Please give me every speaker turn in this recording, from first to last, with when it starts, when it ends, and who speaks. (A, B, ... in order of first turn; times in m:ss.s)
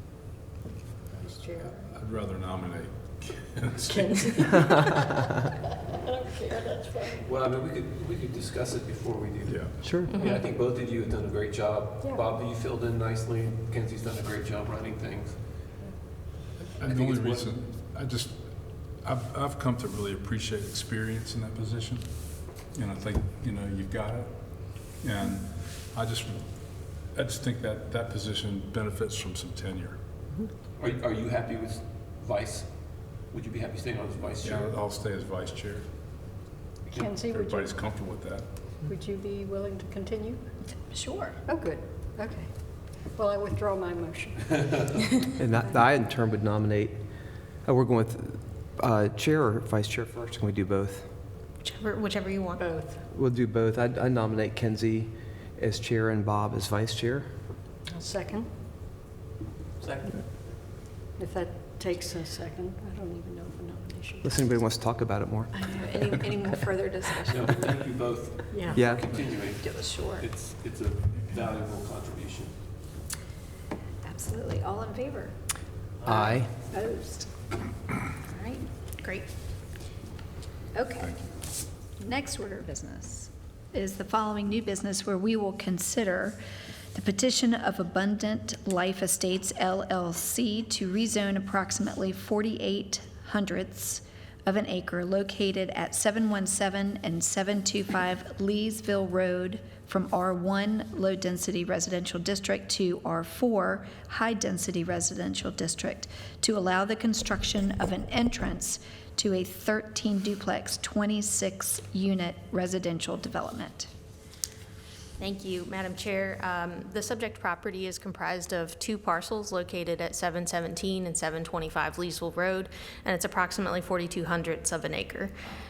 0:01.1-0:02.0 A
0:01.6-0:04.5 B
0:03.8-0:05.1 A
0:06.0-0:07.3 A
0:07.2-0:15.8 C
0:09.4-0:10.1 B
0:09.8-0:10.1 D
0:10.1-0:10.4 E
0:12.0-0:12.3 A
0:15.8-0:16.0 A
0:16.6-0:30.2 B
0:16.8-0:17.6 C
0:30.8-0:34.8 C
0:34.4-0:36.4 B
0:36.9-0:38.1 A
0:36.9-0:37.3 C
0:37.3-0:38.8 B
0:38.8-0:40.6 A
0:40.7-0:41.4 F
0:41.4-0:45.8 A
0:45.4-0:51.2 D
0:51.6-0:52.7 E
0:52.6-0:53.1 A
0:53.1-0:57.4 D
0:57.9-0:58.8 A
0:59.8-1:00.2 C
1:01.0-1:04.7 A
1:04.2-1:05.5 D
1:05.5-1:07.6 F
1:07.3-1:12.8 C
1:08.5-1:09.0 A
1:08.7-1:09.1 D
1:09.5-1:10.3 F
1:14.0-1:15.4 F
1:16.0-1:16.4 C
1:16.0-1:16.5 D
1:16.1-1:17.4 F
1:18.2-1:18.6 F
1:19.0-1:19.3 E
1:20.7-1:26.4 F
1:21.0-1:21.3 B
1:26.9-1:53.9 F
1:55.2-2:05.5 E